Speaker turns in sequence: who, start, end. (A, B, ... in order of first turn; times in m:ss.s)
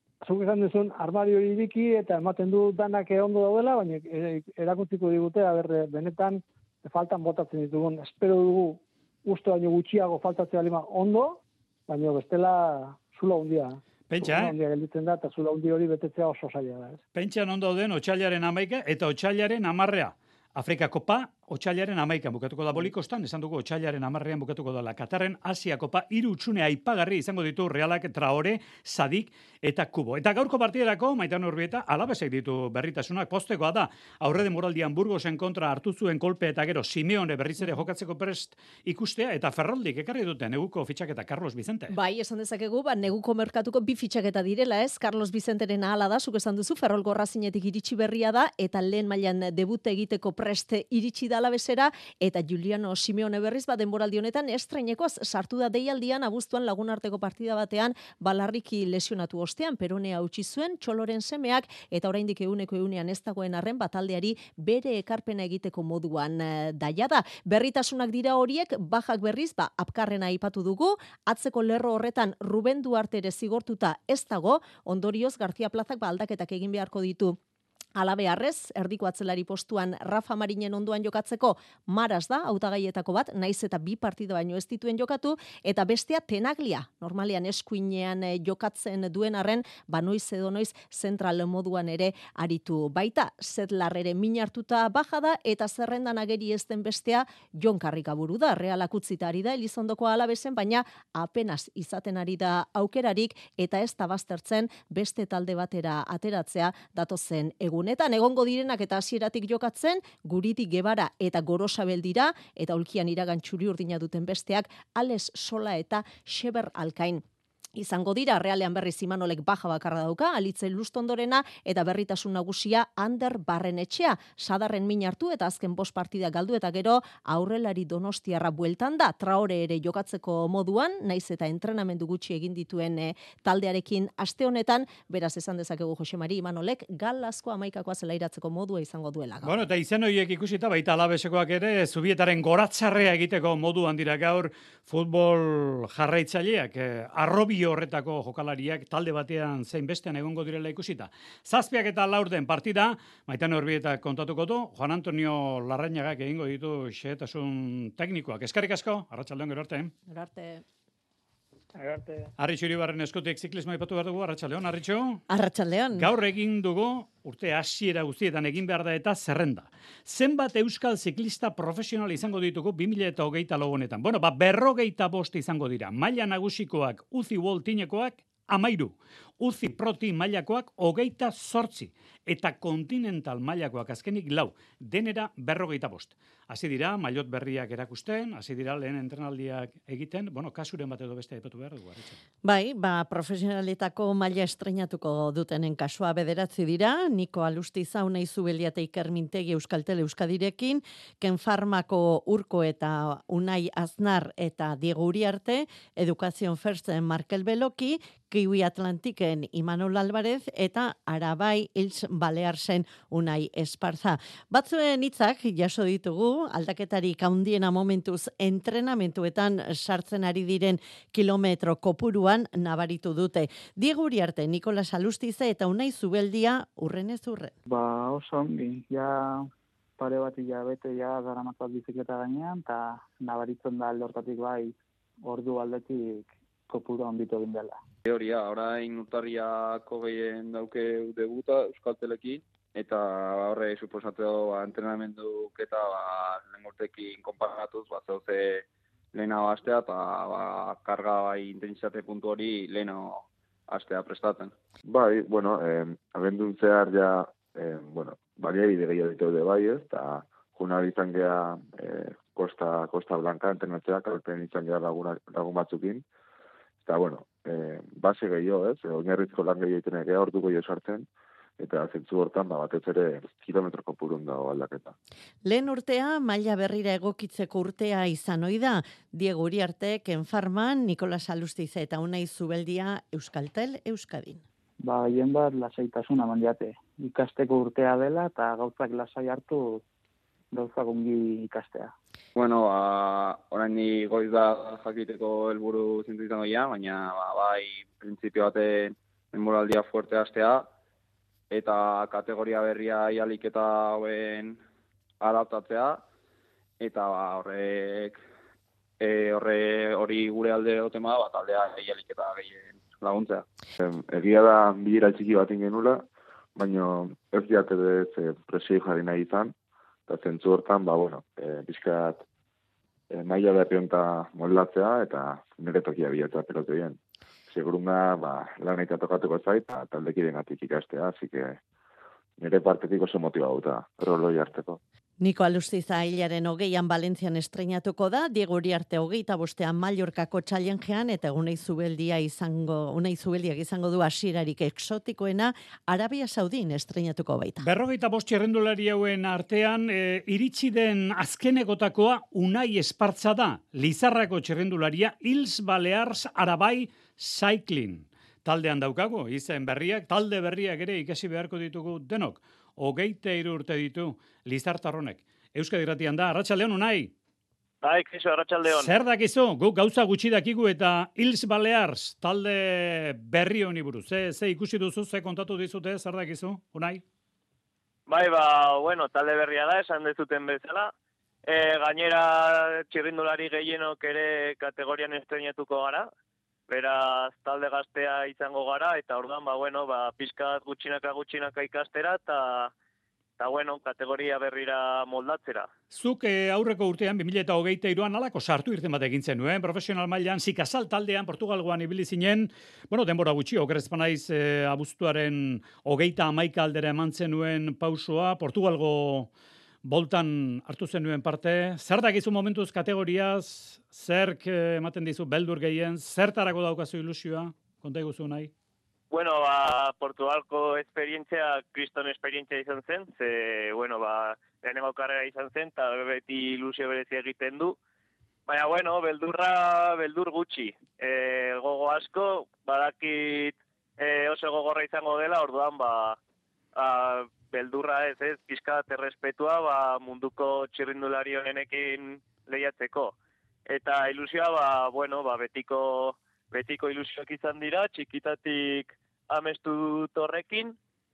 0:00.2-0:17.0 A
0:14.1-0:14.5 B
0:17.1-0:41.9 B
0:41.9-1:17.4 C
1:18.0-1:57.2 C
1:57.8-2:19.5 C
2:19.4-2:39.9 B
2:40.1-2:40.6 D
2:41.8-2:42.3 A
2:42.4-2:45.2 B
2:45.3-2:46.1 D
2:45.9-3:12.2 B
3:12.4-3:47.5 D
3:47.7-3:57.8 E
3:58.0-4:14.5 F
4:14.8-4:26.0 G
4:26.8-4:31.1 G
4:31.6-4:35.0 G
4:35.4-4:44.4 D
4:44.8-4:49.8 E
4:50.5-4:51.9 E
4:52.4-5:00.7 F
5:01.5-5:04.6 F
5:05.2-5:06.0 F
5:06.8-5:08.2 F
5:09.0-5:13.4 F
5:13.8-5:19.5 G
5:20.1-5:22.2 G
5:23.1-5:31.6 G
5:32.4-5:34.8 G
5:35.2-5:47.7 D
5:47.6-6:07.1 B
6:07.8-6:08.9 H
6:08.6-6:17.0 B
6:18.1-6:20.9 H
6:21.5-6:26.1 H
6:26.7-6:32.7 H
6:33.4-6:35.7 H
6:35.9-6:49.3 B
6:49.8-6:58.5 B
6:59.1-7:07.8 H
7:08.5-7:16.2 H
7:16.8-7:23.1 H
7:23.7-7:30.8 H